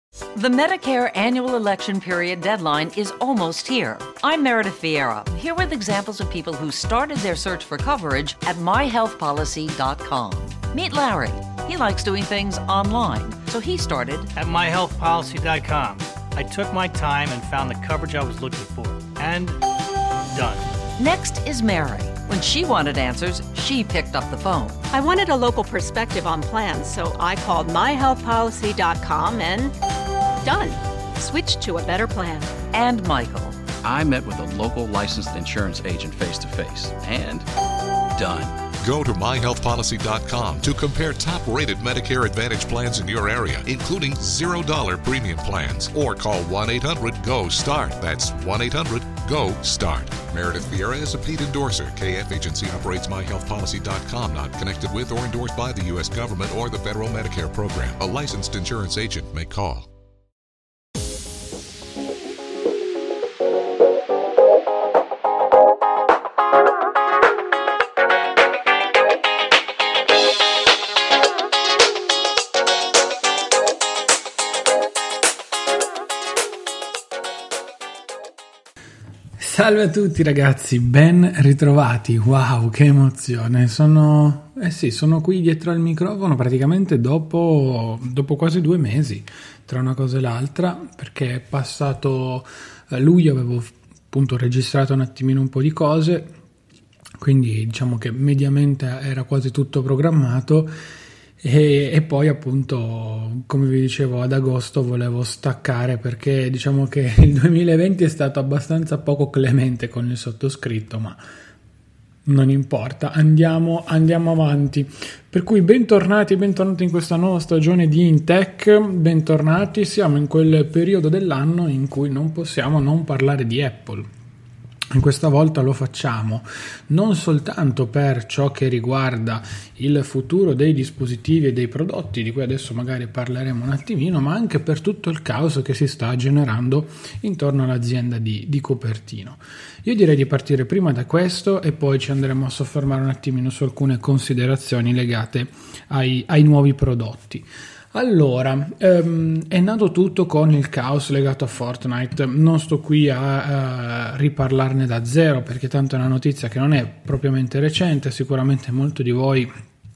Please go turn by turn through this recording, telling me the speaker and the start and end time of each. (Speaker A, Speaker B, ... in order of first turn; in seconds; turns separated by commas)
Speaker A: 0.3-14.3, Speaker B: 14.3-19.6, Speaker B: 20.3-20.7, Speaker A: 21.0-24.8, Speaker C: 24.9-29.7, Speaker C: 30.4-32.6, Speaker A: 32.7-33.6, Speaker D: 33.8-37.5, Speaker D: 38.1-38.5, Speaker E: 38.8-59.9, Speaker F: 79.4-96.3, Speaker F: 97.2-100.7, Speaker F: 101.4-111.2, Speaker F: 112.2-124.1, Speaker F: 124.9-159.5